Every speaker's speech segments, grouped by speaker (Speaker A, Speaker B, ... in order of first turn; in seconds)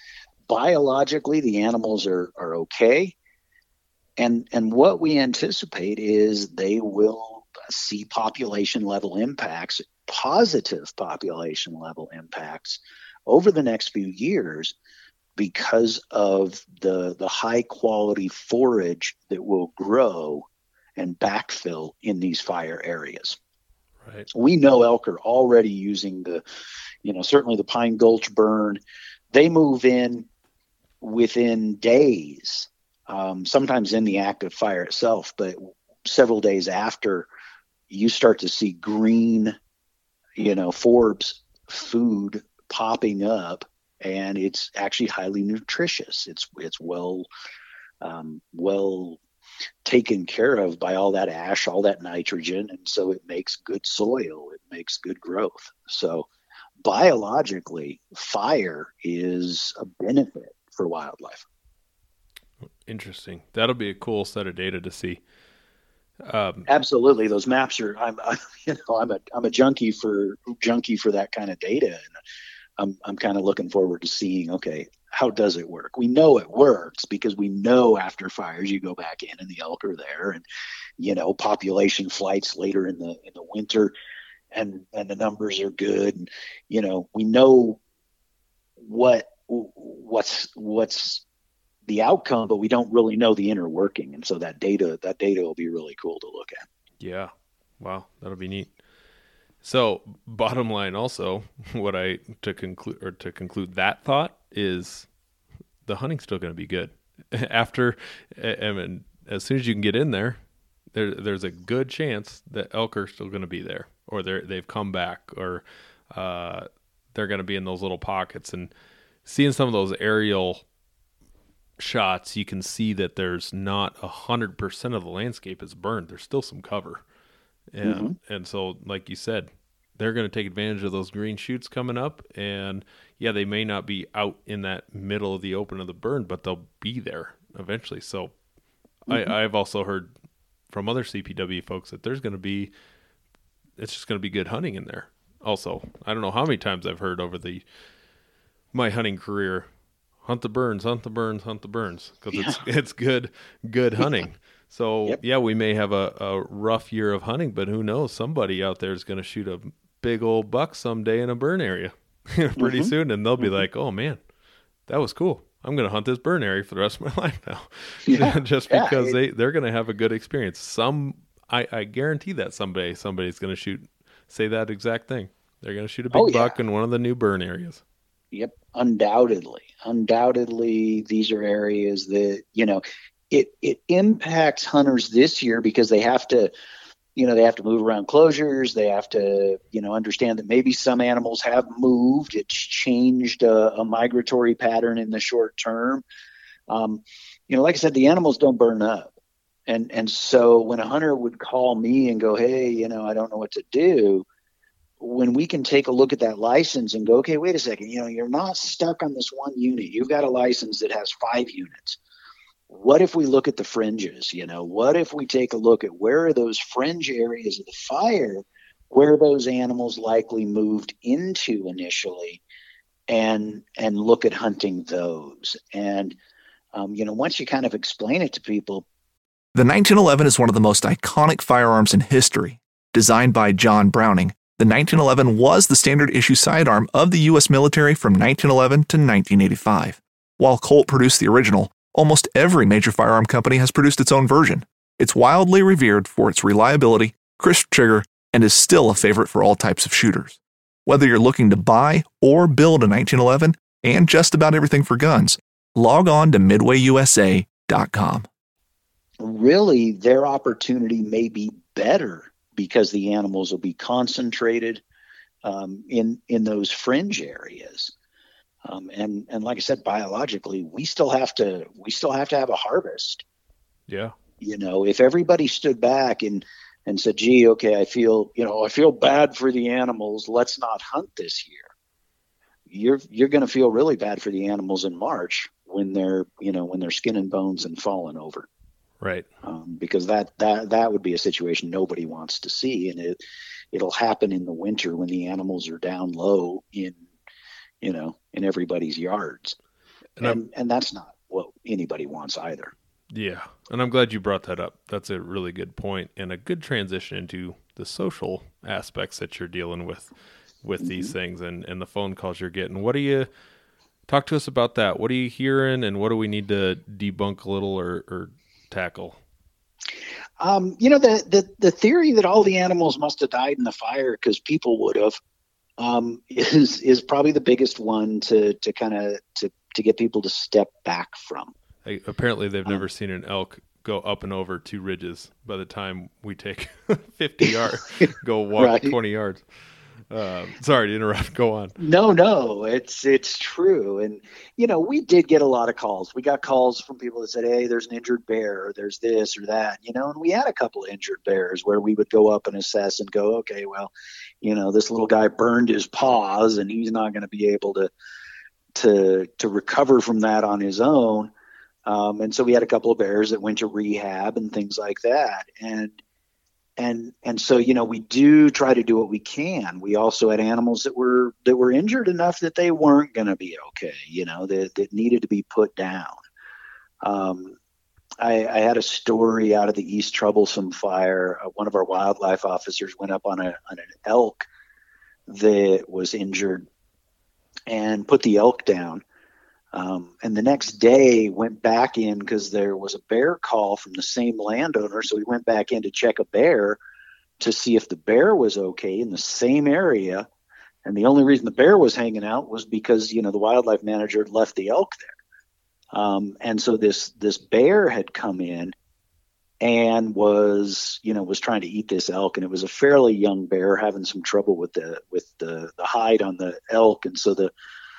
Speaker A: 0.5-3.1, 4.2-14.7, 15.4-23.4, 24.3-26.4, 27.0-28.8, 29.3-30.3, 31.0-37.3, 37.9-39.5, 40.4-47.3, 48.0-49.2, 49.8-56.3, 56.8-61.4, 66.7-72.0, 72.8-80.4, 81.0-83.9, 84.5-87.8, 88.8-91.2, 91.9-96.6, 127.8-128.1, 139.1-139.3, 152.3-152.6, 162.6-163.6, 168.1-169.2, 176.1-176.6, 178.3-186.5, 187.2-196.0, 196.7-199.1, 199.7-204.2, 205.0-212.0, 212.7-222.4, 223.1-226.2, 226.7-228.8, 259.2-264.8, 265.4-267.9, 268.6-273.2, 274.4-281.7, 282.7-288.5, 289.4-293.2, 293.7-297.0, 297.8-299.6, 300.2-302.7, 310.8-311.1, 320.4-325.2, 325.8-331.5, 338.0-338.9, 341.8-353.9, 354.4-357.9, 358.7-361.3, 361.9-366.0, 366.8-376.2, 377.0-377.6, 378.2-384.4, 385.3-386.6, 387.7-389.0, 389.7-396.8, 397.4-400.3, 400.8-405.1, 405.9-408.7, 409.6-417.5
Speaker B: 62.9-65.2, 66.2-66.7, 97.0-98.7, 99.6-105.1, 105.8-110.4, 110.9-118.7, 119.2-120.6, 121.8-127.0, 127.7-138.3, 139.1-140.1, 140.7-142.7, 143.8-147.6, 148.7-149.7, 150.2-164.2, 164.9-177.8, 273.9-274.1, 289.0-289.3, 303.1-310.1, 310.6-313.3, 314.1-319.2, 331.8-339.4, 340.1-341.7
Speaker C: 229.5-258.3